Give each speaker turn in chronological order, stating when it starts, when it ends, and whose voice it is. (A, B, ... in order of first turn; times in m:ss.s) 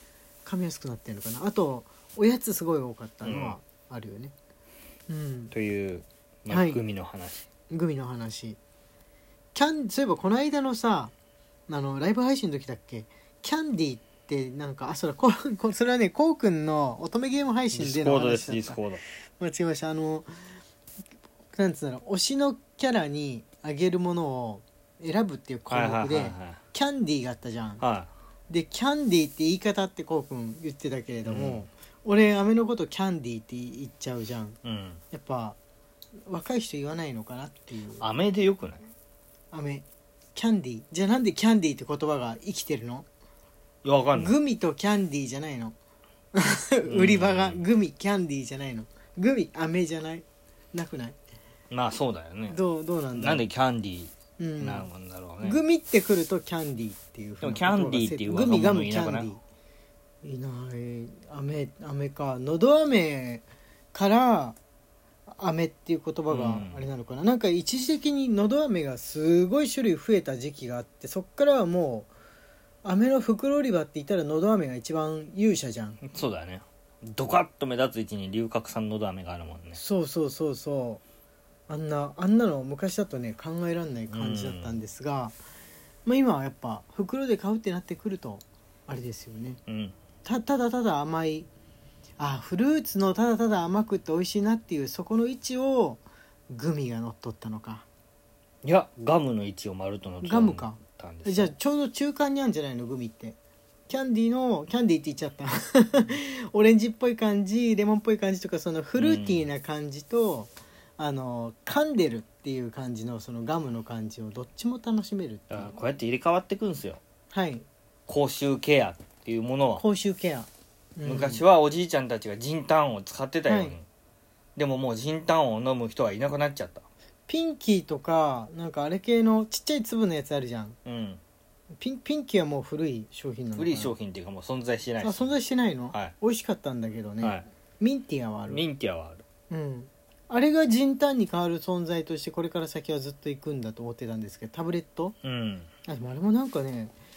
0:00.4-0:04.3 A
0:03.2-0:03.6 B
0:05.1-0:05.5 A
0:05.5-0:07.5 B
0:06.5-0:06.8 A
0:07.7-0:08.6 A
0:09.6-0:11.1 A
0:11.7-0:18.8 A
0:17.7-0:19.0 B
0:19.4-0:20.4 A
0:21.5-0:27.8 A
0:25.7-0:26.6 B
0:27.8-0:28.1 B
0:28.5-0:34.6 A
0:31.2-0:31.6 B
0:34.6-0:35.0 B
0:35.1-0:35.6 A
0:36.3-0:38.1 A
0:38.0-0:38.8 B
0:39.5-0:43.1 A
0:43.8-0:44.4 B
0:44.2-0:45.8 A
0:46.3-0:51.2 A
0:46.9-0:47.6 B
0:51.7-0:52.6 B
0:52.5-0:53.4 A
0:53.2-0:55.6 B
0:54.4-0:54.9 A
0:55.4-0:59.4 A
0:57.4-0:59.3 B
1:00.2-1:04.6 A
1:05.4-1:12.1 A
1:06.3-1:06.9 B
1:12.8-1:16.0 A
1:16.0-1:19.8 B
1:19.8-1:21.0 A
1:21.7-1:25.4 A
1:24.1-1:24.7 B
1:26.0-1:29.6 A
1:29.7-1:29.9 B
1:30.2-1:31.5 A
1:32.2-1:37.8 A
1:38.6-1:41.5 B
1:40.2-1:43.4 A
1:43.9-1:55.7 A
1:49.0-1:49.5 B
1:55.5-1:57.0 B
1:57.3-1:57.7 A
1:58.1-1:59.8 B
1:59.8-2:01.4 A
2:01.0-2:03.8 B
2:03.5-2:03.8 A
2:04.6-2:06.8 B
2:07.3-2:10.8 A
2:10.8-2:11.2 B
2:11.8-2:13.9 A
2:13.6-2:15.3 B
2:15.0-2:18.6 A
2:18.5-2:19.2 B
2:19.5-2:25.2 A
2:25.2-2:25.7 B
2:25.9-2:26.9 A